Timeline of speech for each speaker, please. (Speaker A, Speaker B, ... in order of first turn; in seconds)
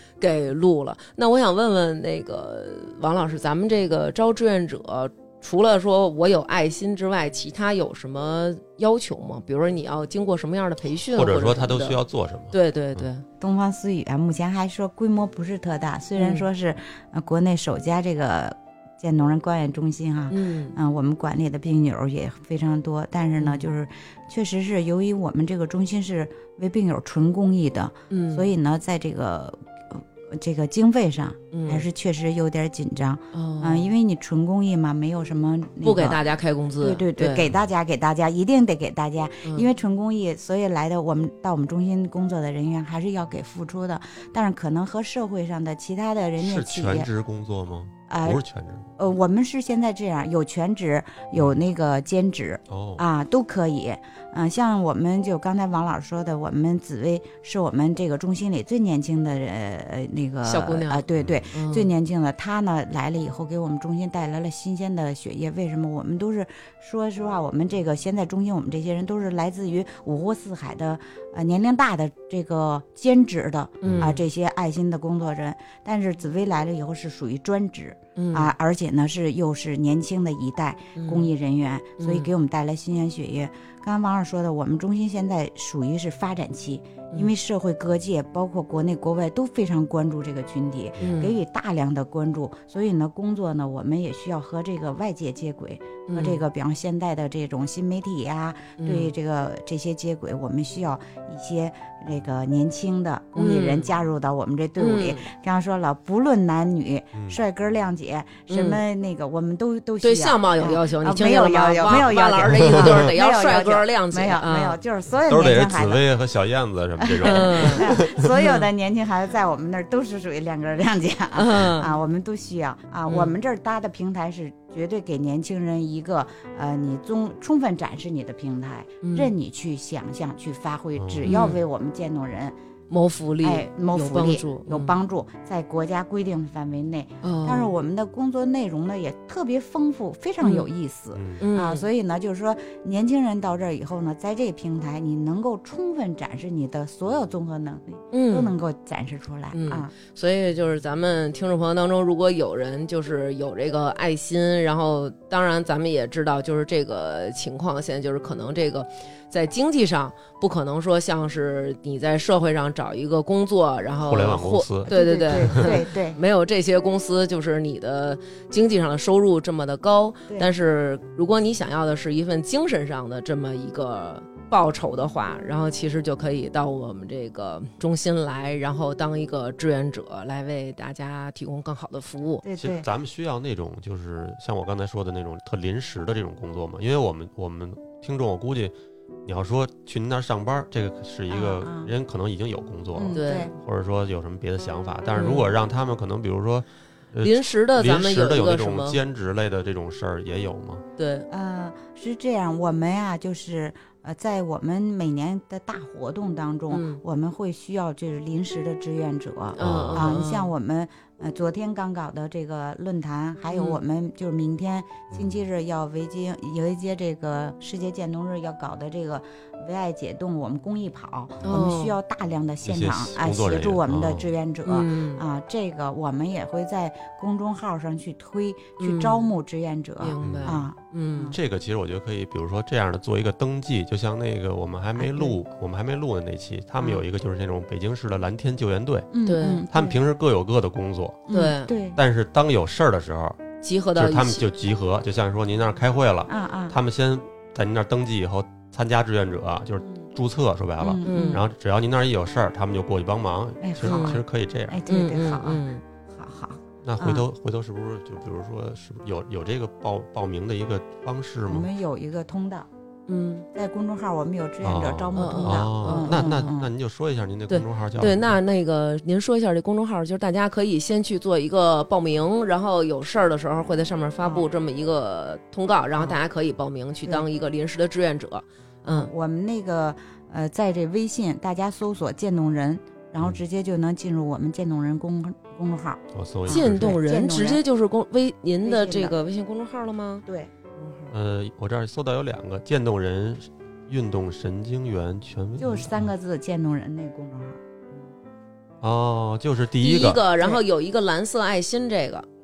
Speaker A: 0.2-12.0, 12.5-13.2, 16.2-16.4, 20.3-20.8, 23.4-23.7, 28.1-28.5, 31.5-31.9, 33.3-33.9, 35.8-37.5, 60.4-61.9, 73.9-74.2, 78.2-78.5, 80.9-81.3, 82.0-82.3, 91.0-91.3, 96.1-96.4, 98.8-99.1, 103.3-103.9, 104.8-105.3, 108.5-108.8, 110.0-114.8, 117.2-118.7, 121.3-121.9, 123.1-123.3, 129.0-129.3, 131.2-131.6, 132.9-135.0, 137.2-137.7, 140.4-140.7, 141.4-141.9, 148.1-148.5, 149.5-182.4, 193.1-193.5, 195.1-195.5, 197.2-199.0, 201.0-201.3, 206.7-207.0, 209.5-210.5, 213.5-213.8, 221.4-221.9, 224.7-225.2, 228.8-229.3, 230.0-231.3, 239.2-239.6, 241.3-241.7, 243.6-244.4, 251.0-251.4, 253.8-254.2, 254.9-255.8, 263.1-263.5, 265.1-266.5, 267.5-279.1, 286.5-290.2, 290.8-291.1, 299.8-302.2
Speaker B: 11.1-13.0, 46.4-48.9, 51.3-51.6, 52.7-53.0, 61.1-61.5, 73.8-74.1, 107.1-107.4, 115.3-118.2, 130.9-131.3, 141.1-141.4, 164.1-165.8, 182.6-188.7, 189.2-200.8, 209.6-210.2, 215.1-215.4, 222.6-224.3, 230.2-230.6, 231.3-239.1, 239.7-241.3, 241.9-243.4, 243.9-254.8, 256.8-261.7, 264.6-268.4, 286.1-287.0, 291.1-296.1, 298.8-300.2
Speaker C: 13.4-36.2, 36.8-47.1, 48.1-48.4, 49.0-116.0, 117.0-132.6, 133.4-149.9, 164.9-166.2, 182.4-182.9, 191.3-191.9, 192.9-193.5, 201.3-231.4, 235.0-235.4, 239.1-240.0, 241.3-242.0, 246.3-246.8, 250.8-251.4, 253.6-257.2, 261.5-262.7, 263.5-266.7, 278.9-287.6, 288.6-289.1, 290.2-290.5, 295.6-297.6